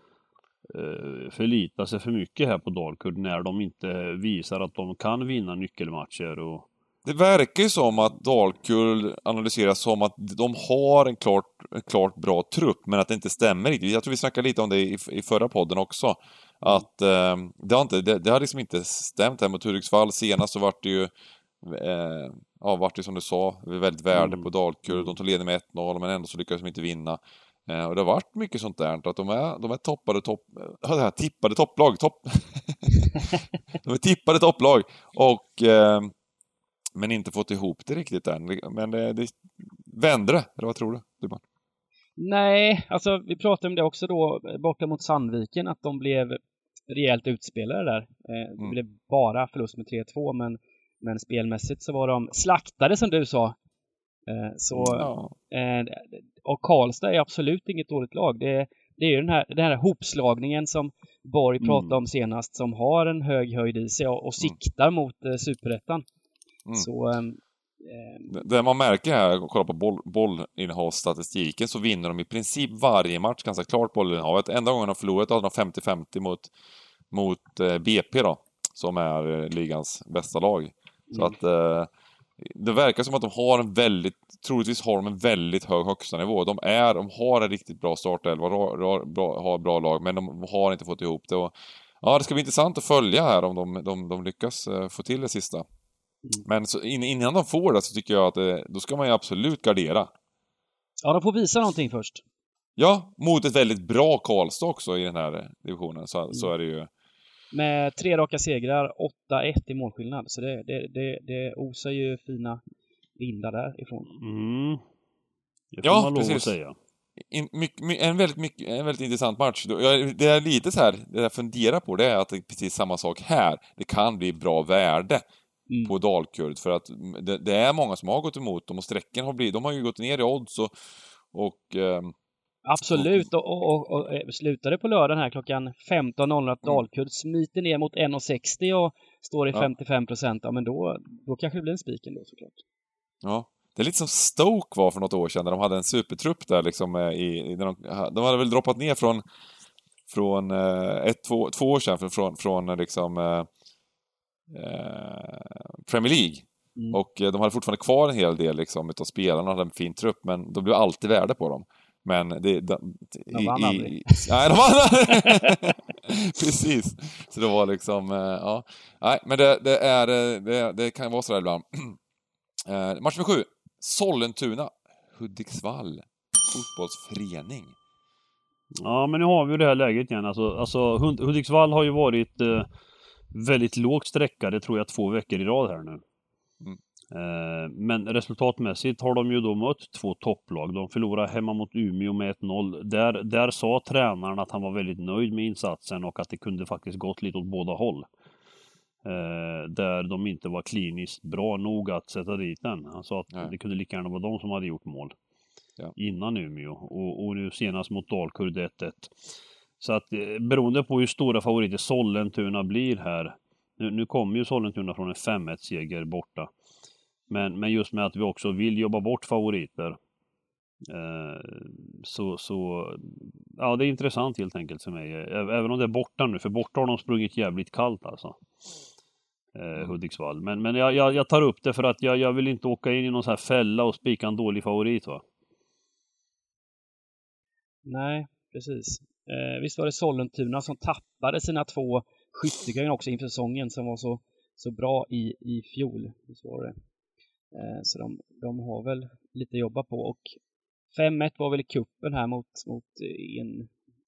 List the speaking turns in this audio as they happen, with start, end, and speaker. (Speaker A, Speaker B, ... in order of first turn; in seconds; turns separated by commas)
Speaker A: 0.7-6.7, Speaker B: 7.0-21.1, Speaker B: 21.6-33.2, Speaker A: 24.1-25.1, Speaker B: 33.8-36.1, Speaker B: 37.0-41.4, Speaker C: 42.2-53.6, Speaker C: 54.3-66.0, Speaker B: 54.8-55.3, Speaker A: 61.6-62.0, Speaker C: 66.8-68.4, Speaker B: 68.3-76.5, Speaker B: 77.1-81.9, Speaker C: 81.1-81.4, Speaker B: 82.4-95.6, Speaker B: 96.4-100.1, Speaker C: 101.0-102.2, Speaker B: 102.8-106.9, Speaker C: 107.5-112.6, Speaker C: 113.2-114.1, Speaker A: 114.2-114.8, Speaker A: 115.7-116.8, Speaker B: 115.8-116.5, Speaker B: 117.3-125.2, Speaker C: 125.7-125.9, Speaker B: 125.8-130.7, Speaker B: 131.3-132.1, Speaker C: 132.6-142.6, Speaker B: 132.8-133.3, Speaker B: 143.2-149.2, Speaker B: 150.1-153.5, Speaker B: 154.5-172.0, Speaker C: 163.3-164.4, Speaker C: 165.1-165.6, Speaker B: 172.7-177.8, Speaker A: 178.8-182.7, Speaker A: 183.3-186.0, Speaker A: 187.1-198.1, Speaker A: 199.0-205.1, Speaker A: 205.9-209.2, Speaker A: 209.8-216.5, Speaker A: 217.3-219.9, Speaker A: 220.8-228.4, Speaker A: 229.6-235.2, Speaker C: 237.8-246.7, Speaker C: 247.5-250.2, Speaker C: 250.9-253.7